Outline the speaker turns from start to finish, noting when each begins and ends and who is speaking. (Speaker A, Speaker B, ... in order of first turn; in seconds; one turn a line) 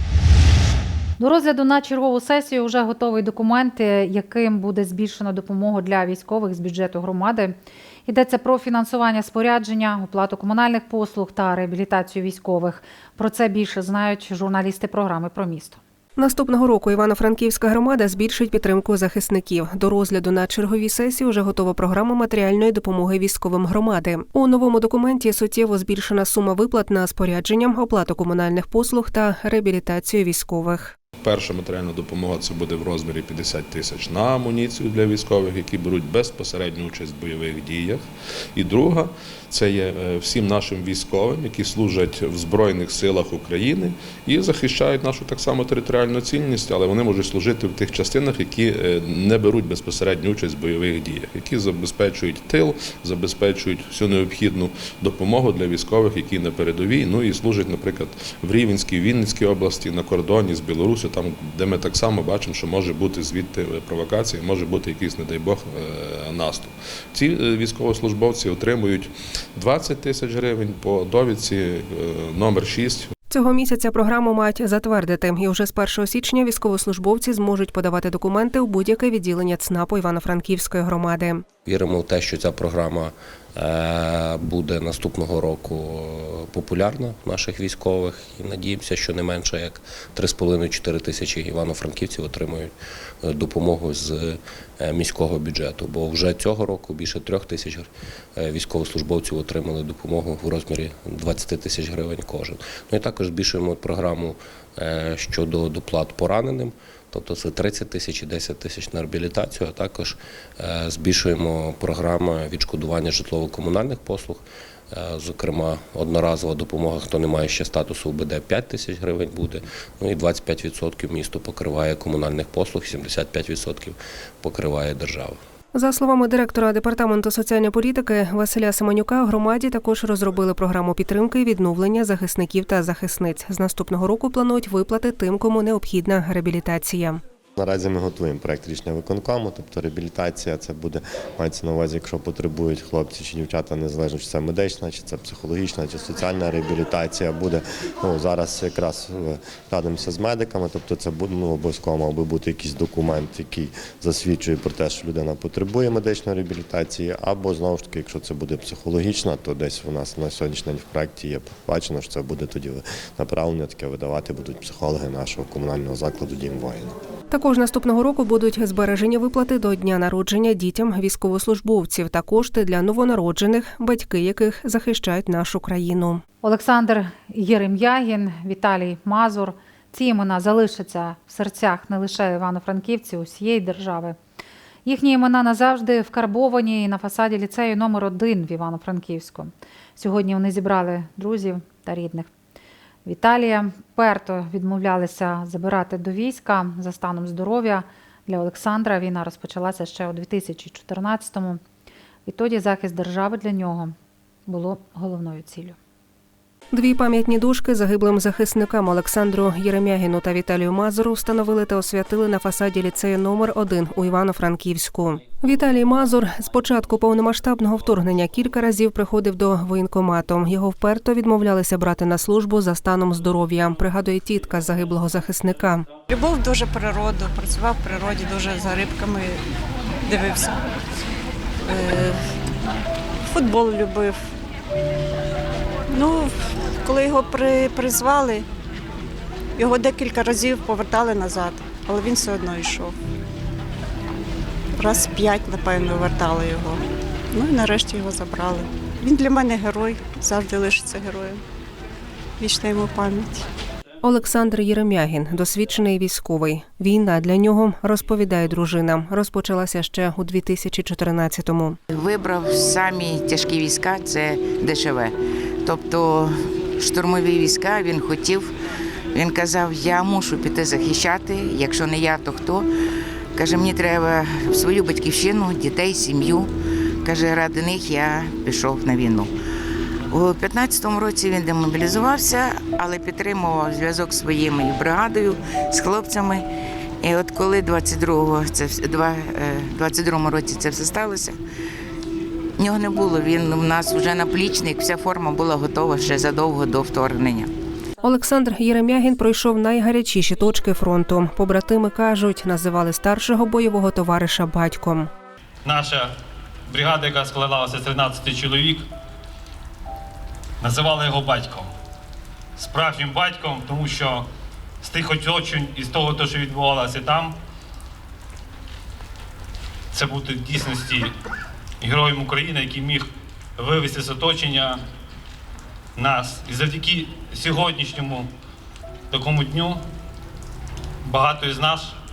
Speaker A: 1.2-15.8
Speaker B: 16.2-30.9
Speaker C: 31.2-38.0
Speaker C: 38.5-73.1
Speaker B: 73.3-81.4
Speaker D: 81.6-92.7
Speaker D: 93.2-125.4
Speaker B: 125.7-137.2
Speaker E: 137.6-166.9
Speaker B: 167.3-176.2
Speaker A: 176.4-184.2
Speaker A: 184.8-192.3
Speaker A: 193.0-201.6
Speaker A: 202.2-203.9
Speaker A: 204.5-205.8
Speaker B: 206.7-225.9
Speaker F: 226.2-229.3
Speaker F: 230.1-230.5
Speaker F: 231.7-232.1
Speaker F: 233.3-234.1
Speaker F: 236.9-238.4
Speaker F: 239.6-242.9
Speaker F: 244.9-246.7
Speaker F: 247.4-248.6
Speaker F: 249.1-251.3
Speaker F: 252.5-253.0
Speaker B: 254.0-261.8
Speaker G: 261.9-268.5
Speaker G: 269.1-272.7
Speaker G: 273.4-276.5
Speaker G: 277.0-279.3
Speaker G: 280.1-286.4
Speaker G: 287.0-291.4
Speaker G: 292.6-297.5
Speaker B: 298.0-305.1
Speaker H: 305.6-306.1
Speaker H: 306.7-308.9
Speaker H: 310.6-311.7
Speaker H: 312.6-314.2
Speaker H: 314.8-317.4
Speaker H: 319.9-321.1
Speaker H: 321.8-323.1
Speaker H: 323.6-324.8
Speaker H: 325.9-328.3
Speaker H: 329.1-329.8
Speaker H: 331.0-332.0